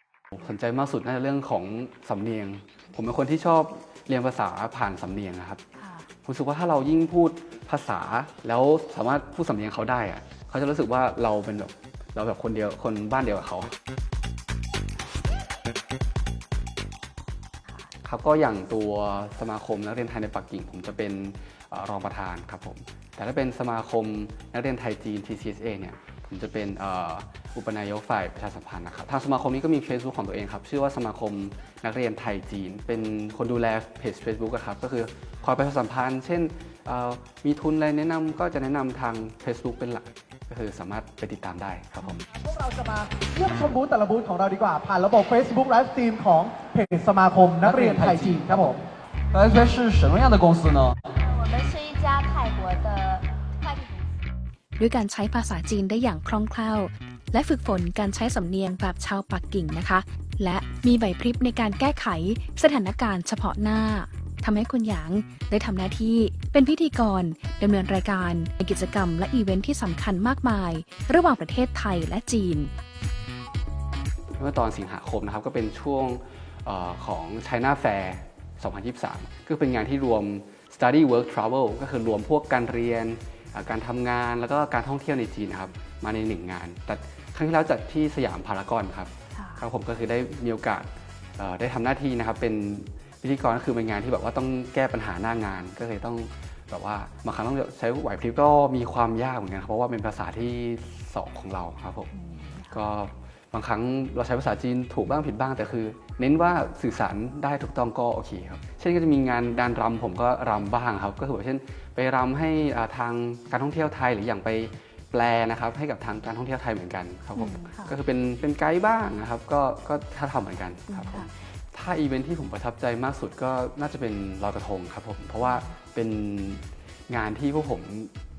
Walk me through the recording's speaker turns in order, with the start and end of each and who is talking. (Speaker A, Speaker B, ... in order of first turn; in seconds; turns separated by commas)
Speaker A: 0.3-5.6, Speaker A: 6.2-13.8, Speaker A: 18.0-42.2, Speaker B: 42.3-48.8, Speaker C: 47.6-48.7, Speaker C: 49.3-51.0, Speaker D: 51.2-54.1, Speaker E: 54.8-72.7, Speaker A: 74.4-102.1, Speaker E: 89.4-89.7, Speaker E: 102.3-102.7, Speaker A: 102.7-128.1, Speaker E: 117.4-117.9, Speaker E: 120.9-121.3